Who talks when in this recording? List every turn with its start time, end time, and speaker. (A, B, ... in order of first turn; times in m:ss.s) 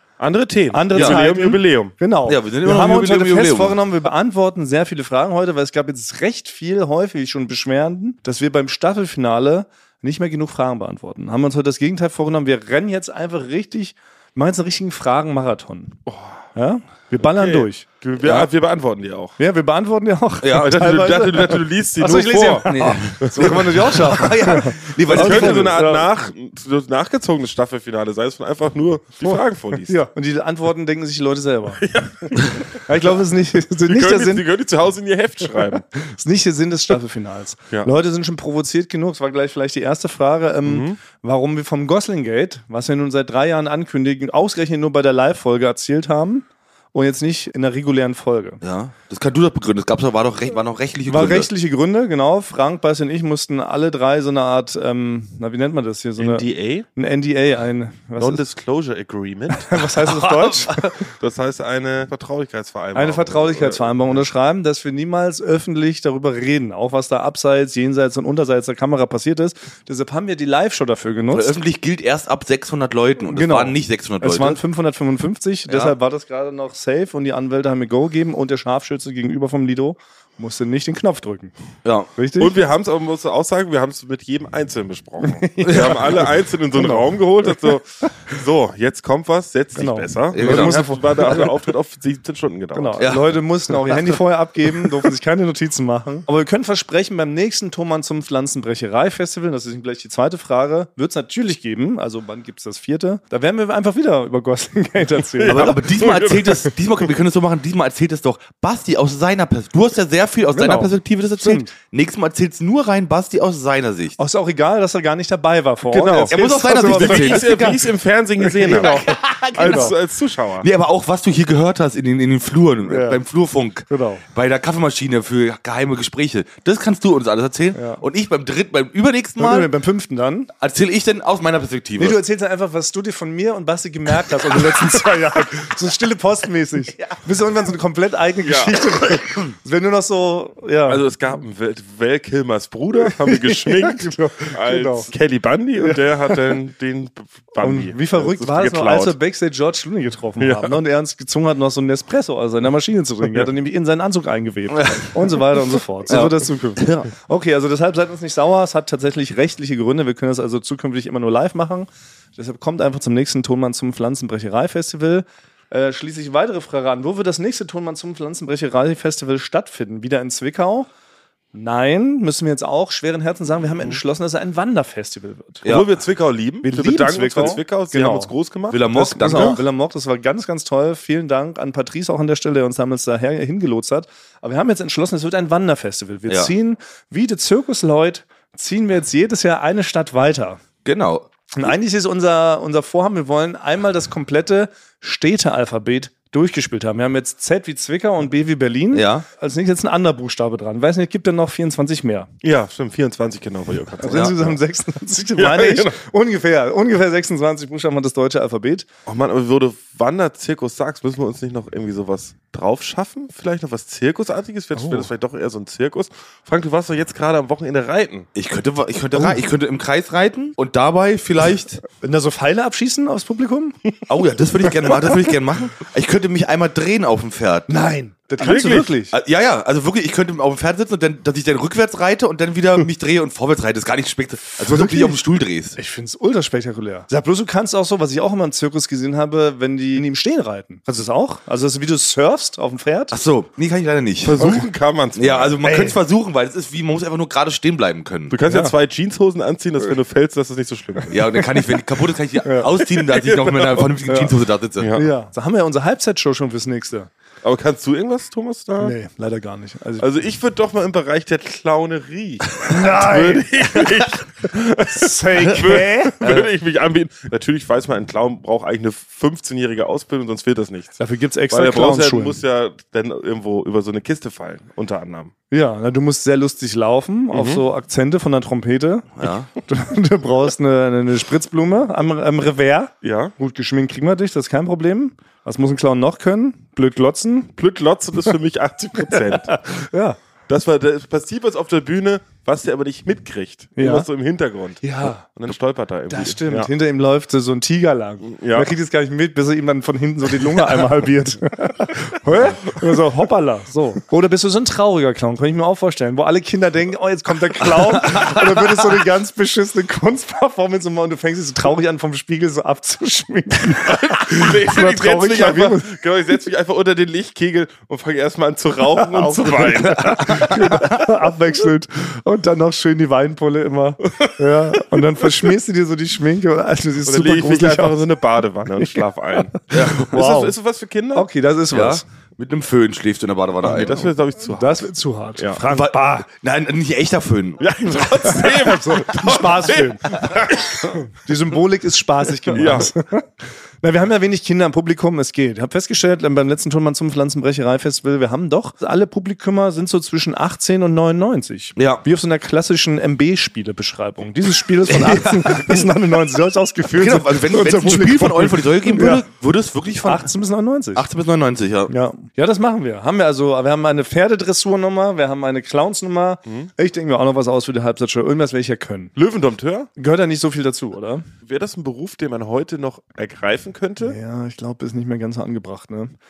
0:00.2-0:01.9 A
0:00.7-0:16.0 B
0:00.9-0:01.2 C
0:02.2-0:03.8 C
0:16.1-0:16.4 A
0:16.5-0:17.8 B
0:17.2-0:19.4 A
0:18.2-0:18.5 C
0:19.4-0:26.1 B
0:20.4-0:20.8 C
0:20.5-0:23.6 A
0:22.6-0:25.8 C
0:25.1-0:30.0 A
0:29.2-0:31.8 B
0:31.8-0:32.8 A
0:32.9-0:34.4 B
0:33.8-0:35.8 A
0:35.4-0:48.6 B
0:40.6-0:41.0 A
0:48.6-0:51.5 C
0:51.1-0:58.5 B
0:56.2-0:56.8 A
0:58.2-0:59.9 A
0:59.5-1:01.1 B
1:00.2-1:00.9 C
1:01.2-1:04.2 A
1:02.9-1:11.6 B
1:11.3-1:14.6 C
1:13.2-1:21.5 B
1:15.7-1:15.9 C
1:21.8-1:22.1 C
1:22.2-1:22.6 B
1:22.4-1:33.1 A
1:25.2-1:27.8 B
1:25.6-1:26.2 C
1:29.8-1:31.6 B
1:30.3-1:30.8 C
1:32.7-1:45.8 B
1:33.0-1:34.2 C
1:45.4-1:46.8 A
1:45.4-1:54.2 C
1:50.5-1:51.7 B
1:54.2-1:57.8 B
1:55.9-2:00.6 A
1:56.3-1:57.8 C
1:58.4-1:59.9 B
1:58.7-1:59.9 C
2:00.6-2:09.7 C
2:02.9-2:03.2 B
2:03.9-2:04.2 B
2:07.7-2:08.0 B
2:09.4-2:10.5 B
2:10.6-2:12.2 C
2:12.0-2:21.0 B
2:18.4-2:18.9 A
2:20.9-2:29.2 A
2:23.0-2:25.1 B
2:25.8-2:26.6 B
2:27.6-2:50.9 B
2:30.4-2:30.8 A
2:34.7-2:35.4 C
2:36.1-2:37.1 C
2:51.5-2:55.6 B
2:55.6-2:56.0 C
2:55.7-2:59.6 A
2:56.6-2:58.3 B
2:58.7-2:59.6 C
2:58.9-3:10.6 B
3:10.8-3:11.3 C
3:11.5-3:22.3 B
3:18.9-3:19.2 C
3:22.4-3:24.5 A
3:24.0-3:28.9 B
3:24.0-3:24.5 C
3:25.3-3:26.0 A
3:29.0-3:38.3 A
3:34.7-3:35.1 B
3:38.3-3:41.8 C
3:39.1-3:39.4 B
3:41.9-3:43.8 B
3:44.1-3:47.7 C
3:47.7-3:49.1 B
3:48.4-3:48.9 A
3:49.1-3:55.8 C
3:54.6-3:55.2 B
3:55.8-4:03.1 B
4:03.1-4:04.6 C
4:04.2-4:05.6 A
4:04.4-4:04.7 B
4:05.2-4:08.4 C
4:05.6-4:06.0 B
4:08.3-4:11.4 A
4:08.5-4:08.7 B
4:11.0-4:11.7 B
4:11.1-4:14.9 C
4:12.4-4:12.7 B
4:13.0-4:14.0 A
4:14.1-4:14.4 B
4:14.8-4:15.1 A
4:14.9-4:17.1 B
4:17.4-4:18.9 A
4:18.8-4:20.1 B
4:20.0-4:31.0 A
4:22.6-4:23.9 B
4:24.8-4:26.3 B
4:26.2-4:26.5 C
4:31.0-4:32.4 B
4:31.5-4:35.3 A
4:35.5-4:47.5 B
4:37.3-4:37.6 A
4:39.2-4:39.5 C
4:43.0-4:43.3 A
4:47.6-4:49.6 A
4:49.0-4:50.2 B
4:50.5-4:56.7 A
4:53.8-4:54.1 B
4:54.8-4:55.3 B
4:56.1-5:16.0 B
4:58.2-4:58.7 A
5:02.4-5:02.8 A
5:08.1-5:08.4 C
5:13.8-5:20.9 A
5:18.9-5:28.0 B
5:20.2-5:21.0 C
5:24.0-5:25.0 A
5:27.0-5:31.3 A
5:28.8-5:30.6 B
5:29.7-5:30.1 C
5:31.1-5:32.0 B
5:31.7-5:34.1 C
5:33.6-5:35.6 A
5:34.5-5:36.3 B
5:35.7-5:38.0 C
5:37.6-5:41.1 A
5:38.2-5:43.3 B
5:42.5-5:42.9 A
5:43.8-5:59.2 B
5:51.8-5:52.0 C
5:54.9-5:55.9 C
5:56.9-6:00.3 C
6:00.0-6:01.0 B
6:00.9-6:01.9 C
6:01.9-6:09.1 B
6:09.2-6:09.9 A
6:10.0-6:11.3 B
6:11.4-6:14.2 A
6:14.0-6:16.1 B